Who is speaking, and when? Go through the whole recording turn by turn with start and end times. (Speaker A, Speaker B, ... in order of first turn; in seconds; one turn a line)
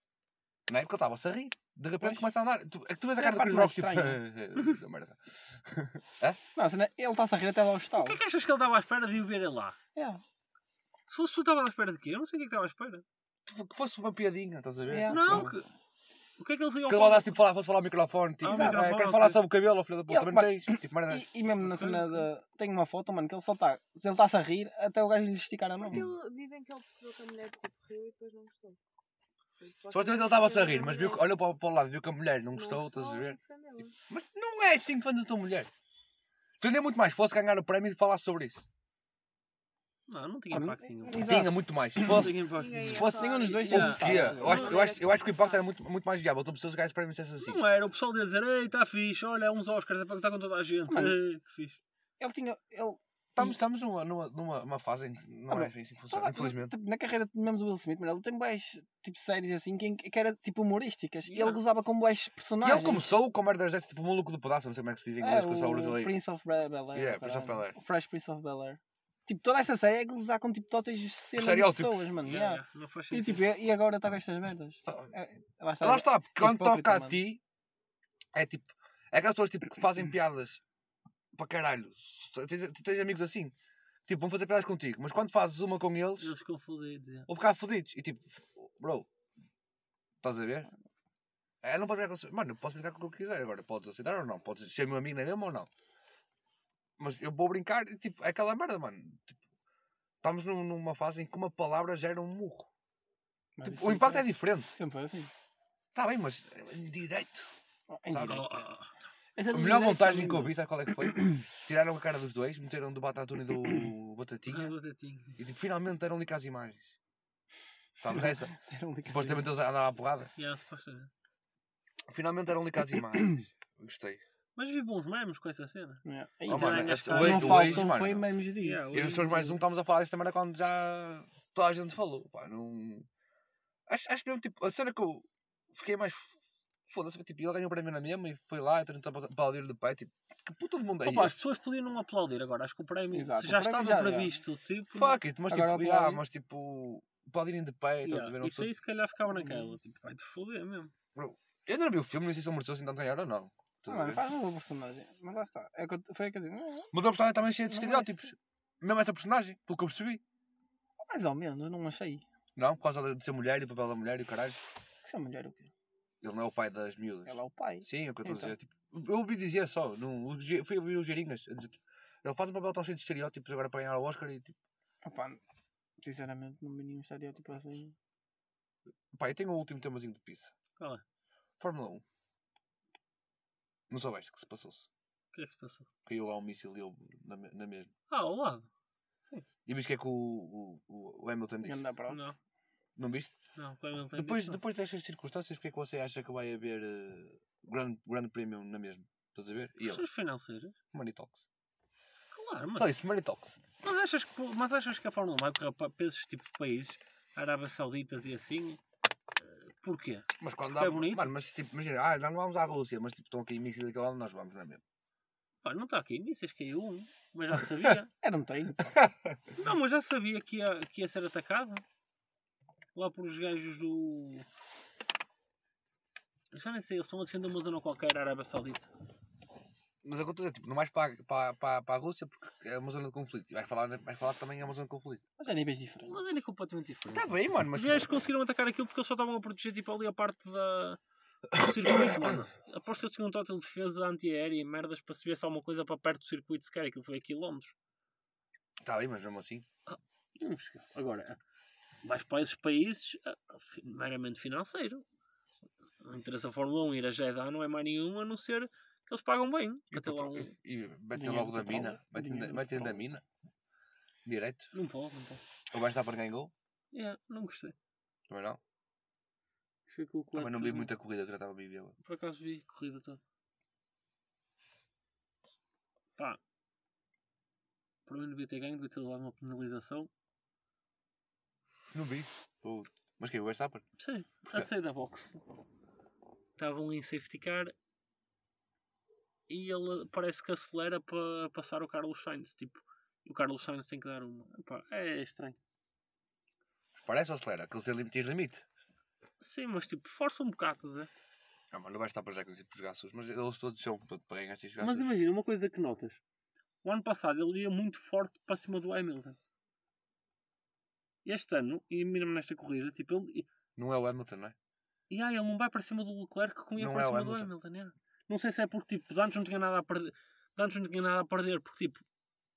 Speaker A: 0.7-6.4
Speaker B: 3.2-4.2
Speaker B: 6.5-8.2
Speaker C: 8.0-9.8
Speaker B: 9.9-10.2
Speaker C: 11.1-13.0
Speaker A: 13.4-15.6
Speaker B: 14.9-15.6
Speaker C: 15.1-15.7
Speaker C: 16.4-17.4
Speaker A: 16.9-21.3
Speaker C: 18.4-19.4
Speaker B: 18.4-18.9
Speaker B: 20.1-26.0
Speaker C: 21.6-22.3
Speaker D: 25.8-28.8
Speaker D: 29.6-31.3
Speaker A: 29.9-33.4
Speaker D: 32.5-33.9
Speaker A: 34.1-35.7
Speaker A: 36.6-38.6
Speaker C: 40.1-41.4
Speaker B: 40.5-42.3
Speaker A: 41.2-47.6
Speaker C: 42.0-43.1
Speaker D: 42.5-45.6
Speaker B: 43.0-44.7
Speaker C: 43.7-44.8
Speaker C: 47.4-51.8
Speaker B: 50.9-51.2
Speaker B: 52.2-53.5
Speaker A: 53.3-56.7
Speaker B: 55.5-63.2
Speaker C: 61.3-61.6
Speaker A: 62.6-66.2
Speaker B: 65.2-77.2
Speaker A: 66.9-67.8
Speaker A: 71.3-72.1
Speaker C: 72.2-73.4
Speaker A: 74.9-75.1
Speaker A: 75.8-77.4
Speaker A: 78.3-80.6
Speaker A: 81.3-83.5
Speaker A: 84.0-86.3
Speaker C: 86.2-87.3
Speaker A: 87.3-89.1
Speaker A: 90.2-90.7
Speaker A: 91.6-95.7
Speaker A: 97.0-99.4
Speaker A: 100.2-102.7
Speaker B: 103.6-105.3
Speaker A: 103.6-104.7
Speaker A: 105.9-107.5
Speaker B: 107.9-108.6
Speaker A: 108.1-108.6
Speaker C: 108.2-108.9
Speaker B: 109.3-110.5
Speaker A: 109.5-114.7
Speaker C: 114.5-115.4
Speaker A: 115.4-116.9
Speaker A: 118.0-120.3
Speaker B: 118.1-119.5
Speaker C: 120.4-121.1
Speaker A: 122.1-124.2
Speaker C: 124.5-128.0
Speaker B: 126.0-129.6
Speaker A: 126.5-128.2
Speaker C: 128.6-129.3
Speaker A: 128.9-133.1
Speaker A: 133.9-141.4
Speaker C: 141.0-145.2
Speaker B: 143.1-144.4
Speaker A: 144.9-148.7
Speaker B: 145.5-146.2
Speaker C: 148.0-150.9
Speaker B: 149.3-149.8
Speaker A: 151.1-154.2
Speaker B: 153.8-156.9
Speaker A: 156.9-160.2
Speaker B: 157.7-158.3
Speaker B: 161.0-162.2
Speaker A: 162.6-164.6
Speaker B: 165.0-165.7
Speaker A: 166.2-174.5
Speaker B: 167.3-168.5
Speaker B: 175.0-175.4
Speaker B: 176.0-177.9
Speaker A: 179.1-180.5
Speaker C: 180.8-181.0
Speaker A: 181.6-182.0
Speaker A: 183.9-184.9
Speaker C: 185.3-185.9
Speaker A: 186.1-187.9
Speaker C: 188.1-188.7
Speaker A: 189.7-191.9
Speaker B: 191.6-192.3
Speaker C: 192.1-192.4
Speaker A: 192.9-193.3
Speaker C: 193.6-194.6
Speaker A: 194.1-200.0
Speaker C: 199.8-200.8
Speaker A: 200.9-201.4
Speaker C: 202.3-202.9
Speaker A: 202.8-203.6
Speaker C: 203.8-208.8
Speaker C: 209.4-211.3
Speaker A: 210.4-214.8
Speaker C: 215.6-218.1
Speaker B: 218.2-218.8
Speaker A: 218.9-219.3
Speaker C: 219.6-221.8
Speaker C: 222.9-224.4
Speaker C: 226.5-228.9
Speaker A: 230.0-235.2
Speaker B: 235.4-236.2
Speaker C: 236.0-241.0
Speaker A: 237.1-238.1
Speaker C: 241.5-247.7
Speaker A: 241.5-242.4
Speaker A: 248.8-249.7
Speaker C: 249.9-251.4
Speaker C: 252.0-255.0
Speaker C: 256.0-260.5
Speaker A: 259.9-263.2
Speaker B: 261.1-263.0
Speaker A: 264.2-264.7
Speaker C: 264.7-265.4
Speaker A: 265.7-266.5
Speaker C: 266.9-267.7
Speaker A: 268.3-268.6
Speaker C: 269.9-270.9
Speaker A: 270.3-271.9
Speaker C: 272.0-273.2
Speaker C: 278.1-280.1
Speaker A: 281.9-283.8
Speaker C: 284.0-285.4
Speaker C: 286.6-287.7
Speaker C: 289.5-295.6
Speaker A: 297.0-298.6
Speaker C: 299.4-301.1
Speaker A: 301.7-305.1
Speaker C: 304.8-306.2
Speaker C: 306.8-309.4
Speaker C: 311.2-313.5
Speaker A: 313.8-314.5
Speaker C: 315.1-322.0
Speaker A: 316.8-317.5